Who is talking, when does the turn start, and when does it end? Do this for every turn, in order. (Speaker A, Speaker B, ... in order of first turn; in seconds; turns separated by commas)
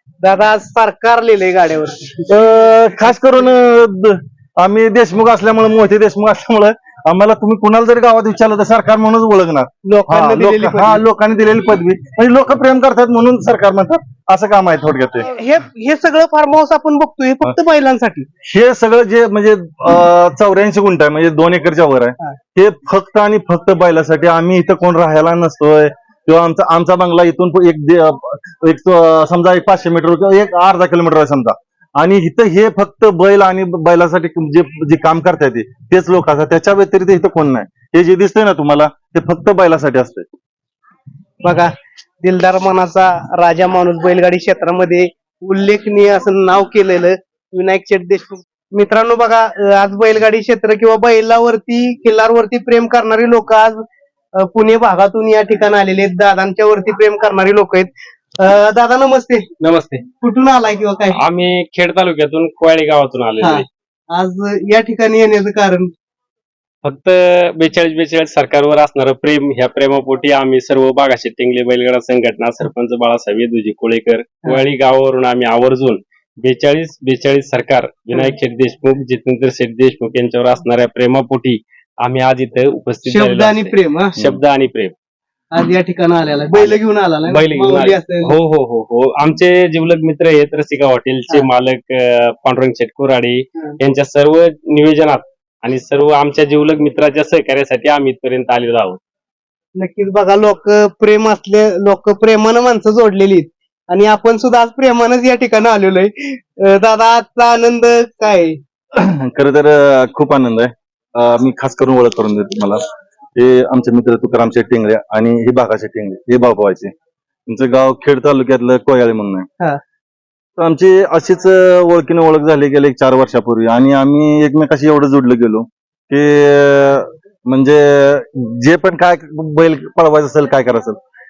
Speaker A: 0.2-2.4, Speaker B: 2.3-15.3, Speaker A: 9.8-11.0, Speaker A: 15.2-18.3, Speaker B: 18.4-40.3, Speaker A: 41.4-53.8, Speaker A: 54.4-59.5, Speaker C: 59.6-60.0, Speaker A: 60.2-61.2, Speaker C: 61.1-63.6, Speaker A: 63.4-65.9, Speaker C: 66.8-84.9, Speaker A: 83.0-84.2, Speaker A: 85.5-88.3, Speaker C: 86.5-99.0, Speaker A: 99.8-108.6, Speaker B: 108.9-112.8, Speaker B: 113.3-116.9, Speaker B: 117.5-119.5, Speaker B: 120.6-131.0